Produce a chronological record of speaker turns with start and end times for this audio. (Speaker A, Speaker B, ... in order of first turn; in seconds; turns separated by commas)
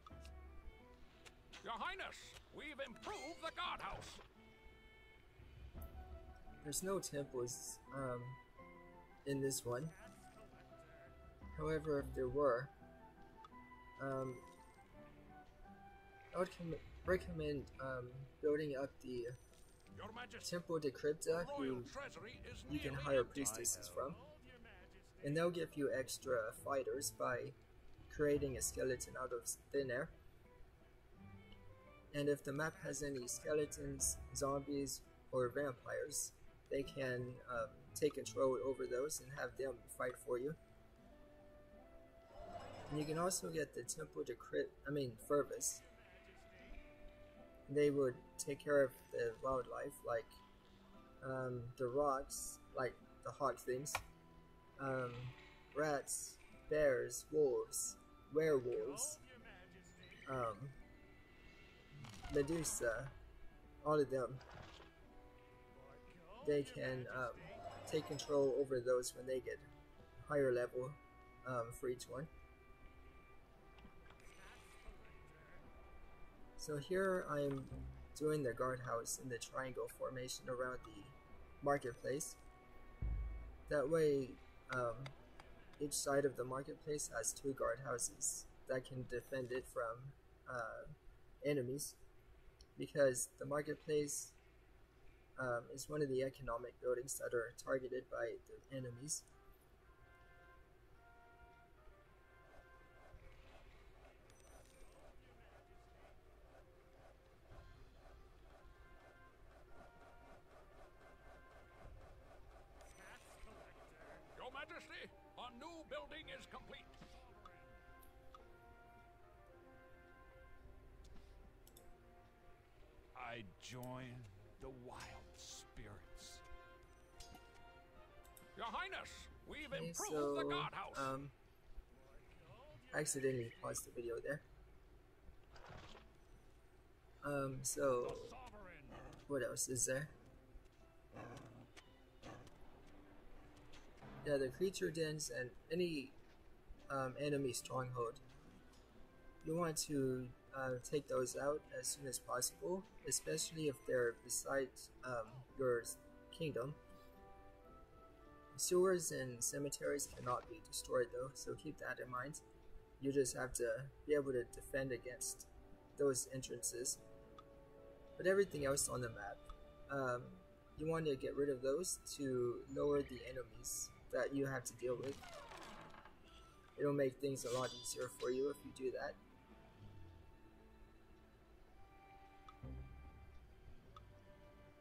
Speaker A: 1.6-4.2, Speaker B: 6.6-8.4, Speaker B: 9.2-10.0, Speaker B: 11.5-12.7, Speaker B: 14.0-14.4, Speaker B: 16.3-19.4, Speaker A: 19.9-20.5, Speaker B: 20.4-21.9, Speaker A: 21.2-23.5, Speaker B: 22.7-24.2, Speaker C: 23.4-24.1, Speaker B: 25.2-27.6, Speaker B: 28.1-30.1, Speaker B: 32.1-40.6, Speaker B: 42.9-45.8, Speaker B: 47.7-50.4, Speaker B: 51.2-54.0, Speaker B: 54.8-59.2, Speaker B: 60.2-60.8, Speaker B: 62.1-63.1, Speaker B: 63.8-64.4, Speaker B: 66.4-69.7, Speaker B: 70.2-72.3, Speaker B: 76.6-82.4, Speaker B: 83.7-85.2, Speaker B: 85.8-92.0, Speaker B: 92.8-94.3, Speaker B: 95.3-99.2, Speaker A: 114.3-117.6, Speaker C: 123.1-126.4, Speaker A: 128.5-131.1, Speaker B: 129.7-131.3, Speaker B: 132.9-134.4, Speaker B: 137.2-138.3, Speaker A: 138.0-139.0, Speaker B: 139.2-140.1, Speaker B: 144.2-146.2, Speaker B: 146.9-148.2, Speaker B: 149.4-156.8, Speaker B: 158.5-162.4, Speaker B: 163.0-167.0, Speaker B: 168.2-175.2, Speaker B: 176.8-179.2